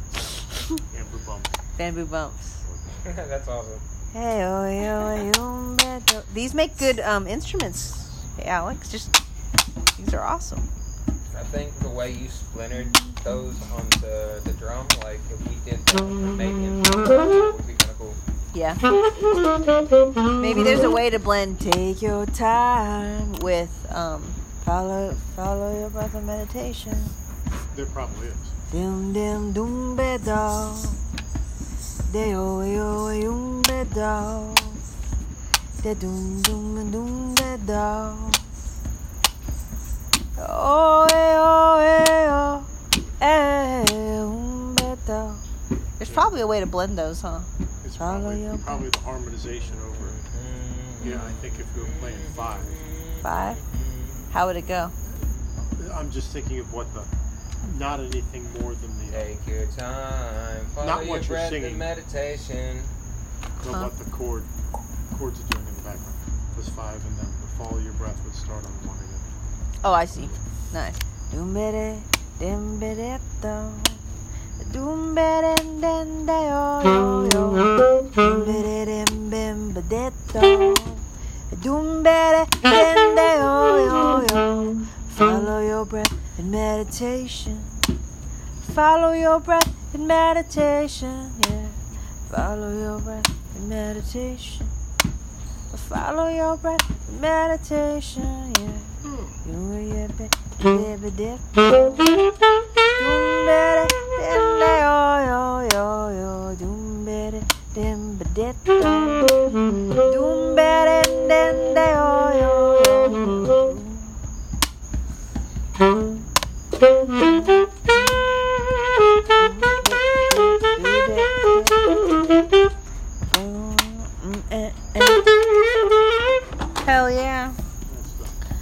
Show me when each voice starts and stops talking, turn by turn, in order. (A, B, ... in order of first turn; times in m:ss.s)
0:00.9-0:01.6 A
0:01.8-0:02.6 B
0:02.6-0:03.1 A
0:03.0-0:03.8 C
0:04.1-0:09.1 B
0:10.0-0:10.7 B
0:11.3-0:18.2 C
0:18.5-0:18.8 B
0:20.4-0:27.1 B
0:27.7-0:28.6 A
0:28.7-0:31.0 B
0:32.1-0:34.8 B
0:35.8-0:38.4 B
0:40.4-0:42.7 B
0:43.2-0:45.4 B
0:46.0-0:46.4 A
0:46.0-0:47.5 B
0:47.8-0:50.2 A
0:48.0-0:48.9 B
0:49.6-0:54.3 C
0:51.0-0:52.8 A
0:53.2-0:53.6 B
0:54.3-0:54.9 B
0:55.2-0:57.1 A
0:57.6-0:59.3 A
0:59.1-1:02.9 C
1:00.8-1:01.9 A
1:03.6-1:04.5 A
1:03.7-1:03.9 B
1:05.1-1:09.3 A
1:09.8-1:14.0 B
1:10.1-1:10.4 A
1:14.6-1:27.8 B
1:28.6-1:34.7 B
1:35.7-1:38.9 B
1:39.0-1:39.3 A
1:39.4-1:41.9 B
1:43.0-1:49.3 B
1:50.0-1:54.2 B
1:59.3-2:01.9 B
2:03.3-2:05.3 B
2:06.8-2:07.6 B
2:07.9-2:08.4 A